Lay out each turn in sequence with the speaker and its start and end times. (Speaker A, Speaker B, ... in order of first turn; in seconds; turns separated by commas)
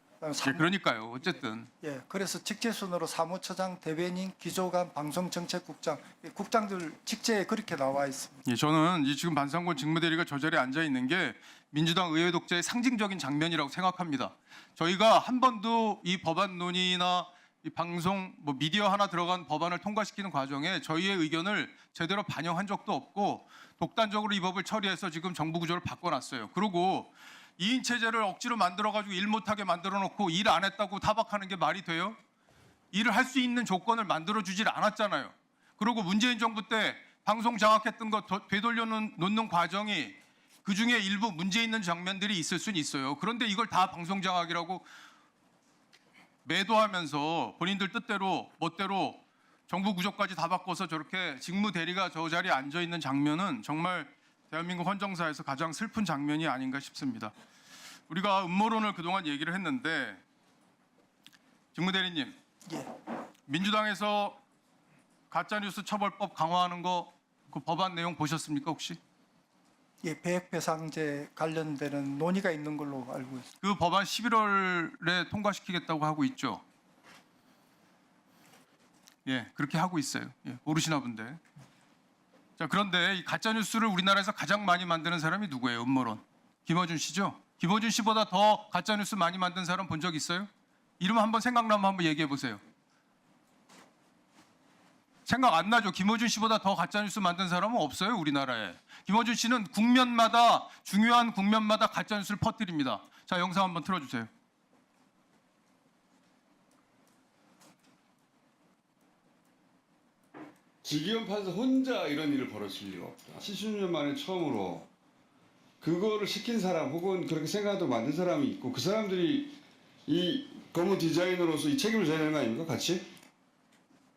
Speaker A: 0.2-0.7, Speaker B: 0.4-1.7, Speaker A: 1.8-8.4, Speaker B: 8.5-32.2, Speaker B: 32.9-44.9, Speaker B: 46.5-57.3, Speaker B: 58.1-60.2, Speaker B: 61.8-62.4, Speaker B: 63.5-64.4, Speaker B: 65.3-69.0, Speaker A: 70.0-73.5, Speaker B: 73.6-76.6, Speaker B: 79.3-81.4, Speaker B: 82.6-90.5, Speaker B: 91.0-92.6, Speaker B: 95.3-104.3, Speaker C: 110.8-114.9, Speaker C: 115.8-123.0